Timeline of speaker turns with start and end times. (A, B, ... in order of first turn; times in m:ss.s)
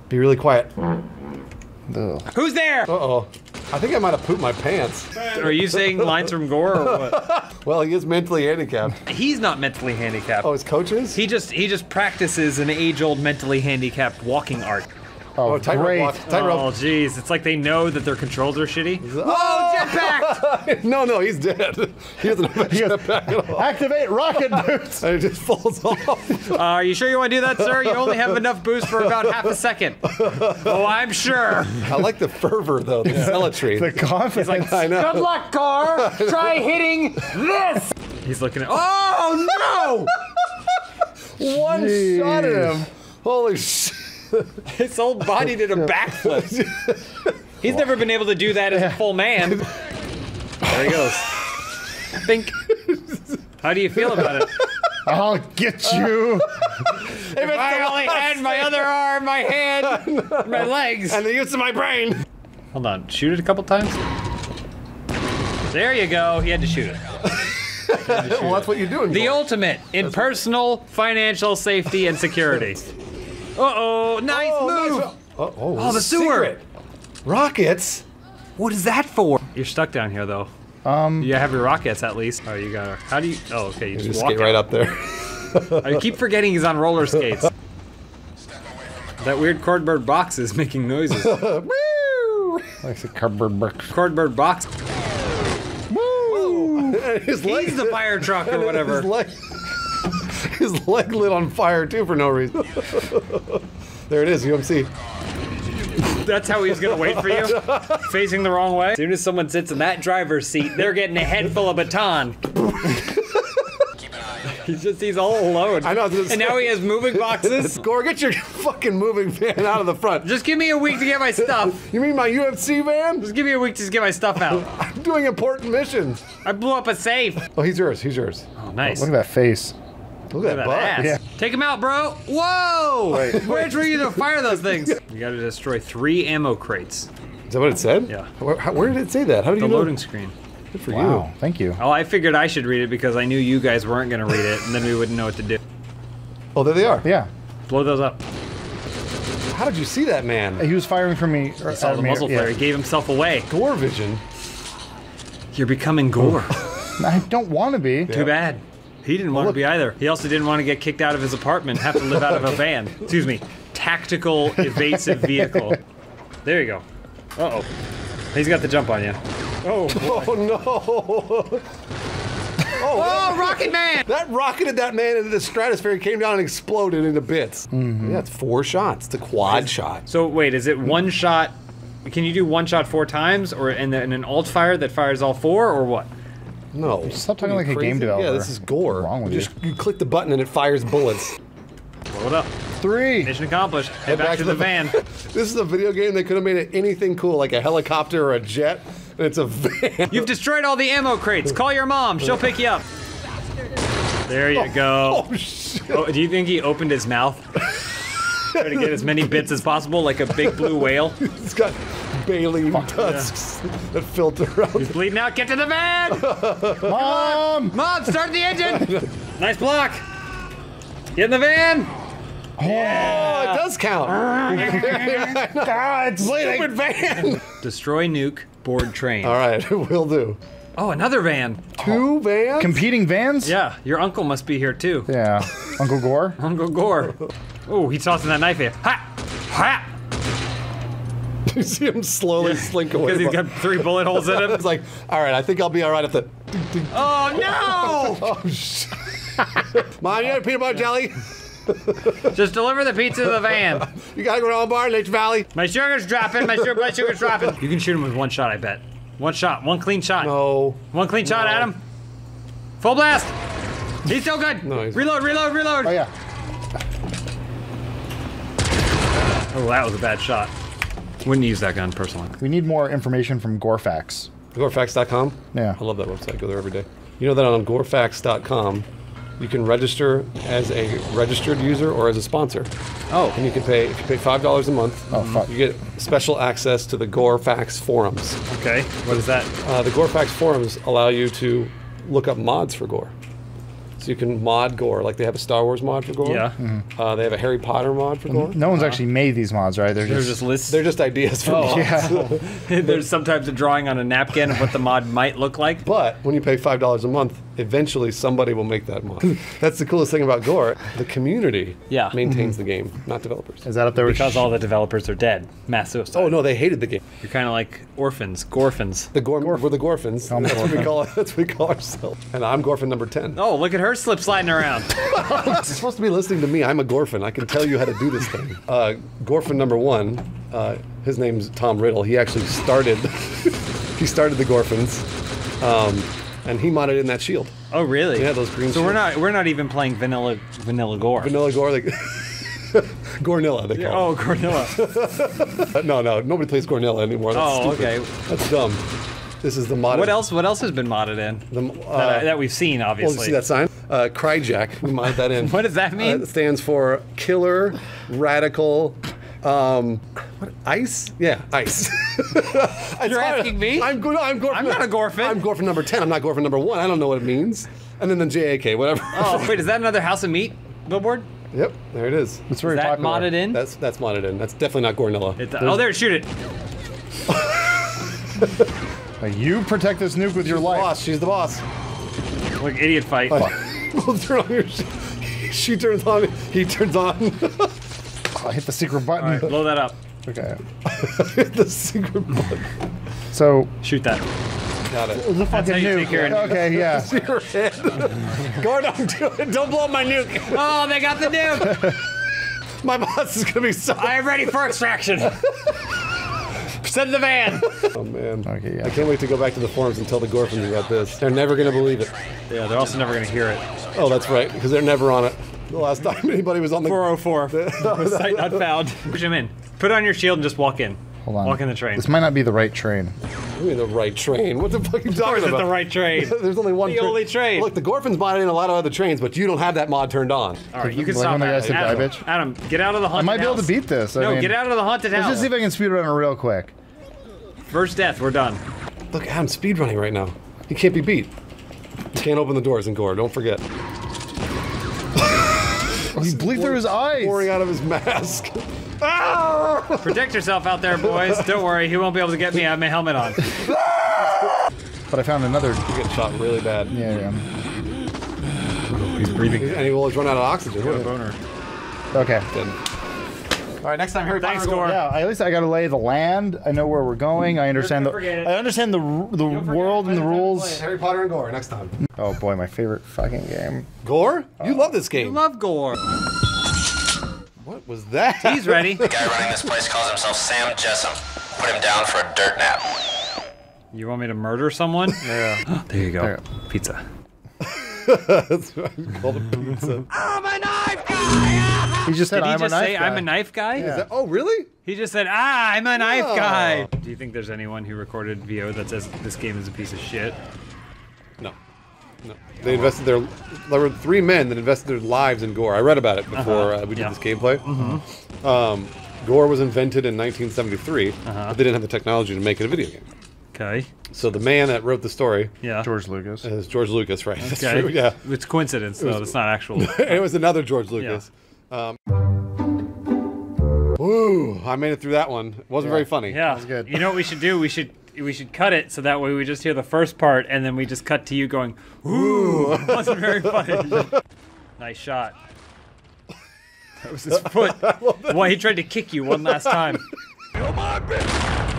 0:00.1-0:00.9 A
0:01.9-0:02.3 B
0:02.3-0:02.9 C
0:02.9-0:09.0 A
0:05.2-0:07.3 C
0:09.0-0:10.5 C
0:10.4-0:11.2 A
0:11.1-0:14.9 C
0:15.4-0:16.2 B
0:15.4-0:16.8 A
0:16.2-0:20.4 C
0:19.0-0:23.7 A
0:22.6-0:25.1 B
0:25.0-0:26.6 A
0:26.5-0:31.9 C
0:27.6-0:30.9 A
0:31.8-0:35.3 A
0:33.1-0:34.9 B
0:34.3-0:40.1 C
0:35.9-0:36.6 A
0:39.6-0:40.8 A
0:41.4-0:44.6 A
0:41.4-0:42.9 B
0:44.6-0:46.6 C
0:46.0-0:47.8 A
0:47.6-0:49.6 C
0:48.7-0:49.0 B
0:50.6-0:51.4 C
0:52.1-0:52.6 C
0:52.6-0:53.4 A
0:53.6-0:54.6 C
0:53.9-0:55.0 A
0:55.0-0:56.5 B
0:55.9-0:58.9 A
0:57.0-1:01.2 C
0:59.6-1:02.2 A
1:02.7-1:04.0 C
1:05.7-1:07.0 C
1:07.2-1:09.5 A
1:08.0-1:12.9 C
1:13.6-1:15.1 C
1:14.3-1:16.6 A
1:15.8-1:16.6 C
1:17.2-1:18.0 A
1:18.6-1:20.5 C
1:20.8-1:21.4 B
1:21.2-1:24.6 C
1:23.9-1:26.1 A
1:25.8-1:27.5 C
1:29.2-1:31.5 C
1:31.1-1:32.8 A
1:32.8-1:33.9 B
1:33.9-1:34.7 C
1:35.9-1:37.0 B
1:36.3-1:44.9 A
1:37.4-1:39.1 C
1:46.0-1:53.1 C
1:46.8-1:48.0 A
1:52.8-1:53.7 A
1:54.4-1:57.8 C
1:55.8-2:00.3 A
2:00.2-2:01.8 C
2:01.4-2:03.3 A
2:03.2-2:04.7 C
2:04.5-2:06.3 A
2:06.4-2:07.5 C
2:07.5-2:08.5 A
2:08.6-2:09.1 C
2:08.8-2:09.7 B
2:10.3-2:11.1 A
2:10.4-2:17.1 C
2:13.1-2:13.4 B
2:13.2-2:15.0 A
2:17.5-2:20.0 A
2:19.6-2:20.3 C
2:20.7-2:21.2 A
2:20.9-2:21.8 B
2:21.8-2:25.6 C
2:26.5-2:27.1 A
2:27.0-2:27.3 B
2:27.7-2:28.2 C
2:29.5-2:30.6 A
2:30.6-2:32.6 B
2:31.7-2:33.5 C
2:33.5-2:34.2 A
2:35.5-2:36.6 C
2:37.0-2:38.2 B
2:38.1-2:38.4 A
2:38.1-2:45.8 C
2:39.3-2:39.6 A
2:42.1-2:42.6 A
2:45.3-2:45.8 B
2:46.4-2:46.8 C
2:47.4-2:47.7 C
2:48.3-2:50.2 C
2:49.9-2:51.6 A
2:52.7-3:00.0 A
2:52.9-2:54.0 C
2:57.7-2:58.2 B
2:59.4-3:06.1 C
3:06.7-3:11.4 A
3:07.0-3:09.5 B
3:12.1-3:12.5 C
3:12.8-3:13.3 B
3:13.2-3:15.0 C
3:14.0-3:20.3 A
3:20.1-3:22.8 C
3:24.3-3:25.3 C
3:24.5-3:26.2 A
3:25.9-3:27.4 C
3:28.4-3:29.4 A
3:28.5-3:31.2 C
3:30.4-3:35.0 A
3:33.0-3:33.3 C
3:34.8-3:36.3 C
3:36.1-3:37.0 A
3:36.8-3:37.8 B
3:36.9-3:40.0 C
3:38.6-3:39.1 A
3:41.1-3:41.9 C
3:42.6-3:43.1 B
3:42.6-3:43.6 C
3:42.6-3:47.4 A
3:44.2-3:46.8 B
3:44.5-3:45.1 C
3:47.5-3:49.4 C
3:49.2-3:50.4 A
3:50.8-3:51.8 C
3:51.8-3:52.8 A
3:52.6-3:53.6 B
3:53.4-3:55.1 C
3:55.1-3:56.4 B
3:56.4-3:59.9 C
4:01.4-4:12.3 A
4:02.4-4:04.6 C
4:06.9-4:08.3 C
4:12.3-4:13.9 C
4:13.2-4:15.5 A
4:15.5-4:20.3 C
4:16.4-4:17.5 A
4:20.2-4:21.7 A
4:20.9-4:21.8 C
4:22.8-4:23.3 C
4:24.0-4:26.0 C
4:24.6-4:25.0 A
4:25.8-4:26.1 B
4:29.5-4:30.5 C
4:31.2-4:32.4 C
4:32.4-4:34.3 B
4:34.5-4:38.8 A
4:35.5-4:35.8 B
4:39.4-4:42.7 A
4:43.1-4:43.4 C
4:43.3-4:48.4 A
4:45.1-4:45.5 B
4:45.1-4:45.4 C
4:48.5-4:49.5 C
4:49.5-4:53.1 A
4:54.0-4:58.6 A
4:56.2-4:56.6 C
4:56.6-4:56.8 B
4:58.3-5:00.4 B
4:58.6-4:59.0 C
5:00.0-5:00.8 C
5:00.7-5:03.0 A
5:01.5-5:02.3 B
5:01.5-5:05.8 C
5:05.8-5:13.6 A
5:11.9-5:12.2 C
5:13.6-5:14.5 B
5:14.0-5:16.4 C
5:16.1-5:17.0 A
5:17.2-5:19.1 C
5:19.1-5:23.4 A
5:20.3-5:20.9 B
5:23.4-5:25.1 C
5:25.0-5:35.0 A
5:35.6-5:37.5 A
5:37.7-5:41.3 C
5:38.1-5:39.0 A
5:41.2-5:48.8 A
5:43.7-5:44.8 C
5:47.3-5:48.1 C
5:49.4-5:50.2 A
5:49.9-5:53.4 C
5:51.5-5:52.4 A
5:53.0-6:09.6 A
5:55.3-5:56.3 C
6:03.0-6:03.9 C
6:04.5-6:05.4 C
6:09.1-6:11.3 C
6:11.5-6:12.4 A
6:12.5-6:13.4 B
6:12.6-6:13.6 C
6:13.5-6:15.9 A
6:15.4-6:16.3 C
6:17.3-6:17.7 A
6:18.4-6:18.6 A
6:19.2-6:20.9 B
6:20.4-6:21.6 A
6:22.6-6:23.5 C
6:23.3-6:27.8 A
6:28.3-6:29.6 B
6:29.2-6:30.0 C
6:30.2-6:30.6 B
6:30.8-6:32.7 A
6:33.3-6:33.7 B
6:33.8-6:34.2 C
6:34.9-6:40.8 A
6:35.1-6:37.1 B
6:35.5-6:36.7 C
6:40.5-6:41.9 C
6:41.6-6:41.9 A
6:41.7-6:42.0 B
6:42.8-6:44.6 A
6:44.0-6:45.4 C
6:46.7-6:47.8 C
6:47.8-6:52.1 A
6:48.4-6:49.0 B
6:52.5-6:53.6 C
6:53.9-6:58.7 A
6:56.8-7:02.1 C
7:01.2-7:03.1 B
7:03.5-7:10.7 A
7:05.1-7:07.7 C
7:10.7-7:15.5 C
7:10.8-7:12.2 B
7:11.6-7:12.2 A
7:13.1-7:14.6 B
7:15.1-7:16.7 B
7:17.7-7:18.6 C
7:19.1-7:21.3 A
7:22.1-7:23.6 A
7:26.0-7:30.2 A
7:26.1-7:27.5 B
7:30.0-7:33.5 C
7:31.1-7:31.6 A
7:33.6-7:34.5 A
7:35.1-7:35.8 B
7:35.9-7:37.0 A
7:36.9-7:37.4 B
7:38.9-7:39.9 C
7:39.5-7:41.1 A
7:40.8-7:41.4 C
7:42.1-7:42.5 B
7:42.5-7:42.8 A
7:43.8-7:45.0 A
7:44.4-7:45.0 C
7:44.8-7:50.8 B
7:47.7-7:48.5 C
7:49.4-7:50.8 C
7:50.6-7:51.9 A
7:52.2-7:53.9 B
7:54.0-7:55.4 A
7:55.1-7:56.0 C
7:57.6-7:59.5 A
7:58.4-7:59.1 C
7:59.0-8:03.0 D
8:03.9-8:07.0 C
8:05.2-8:05.7 B
8:07.6-8:10.1 A
8:10.1-8:13.9 C
8:12.0-8:14.0 B
8:13.8-8:14.7 A
8:14.8-8:20.4 C
8:16.0-8:16.9 A
8:22.2-8:27.7 A
8:26.3-8:28.0 C
8:28.4-8:33.0 A
8:31.2-8:31.6 C
8:33.5-8:33.9 C
8:34.1-8:35.5 A
8:35.6-8:35.9 C
8:35.8-8:36.5 B
8:36.4-8:38.2 A
8:37.4-8:40.2 C
8:39.0-8:42.0 A
8:44.0-8:46.4 A
8:45.8-8:46.9 B
8:46.3-8:54.1 C
8:52.1-8:54.0 A
8:54.8-8:55.3 C
8:57.0-9:00.0 C
8:57.5-8:58.6 A
8:59.5-9:00.0 A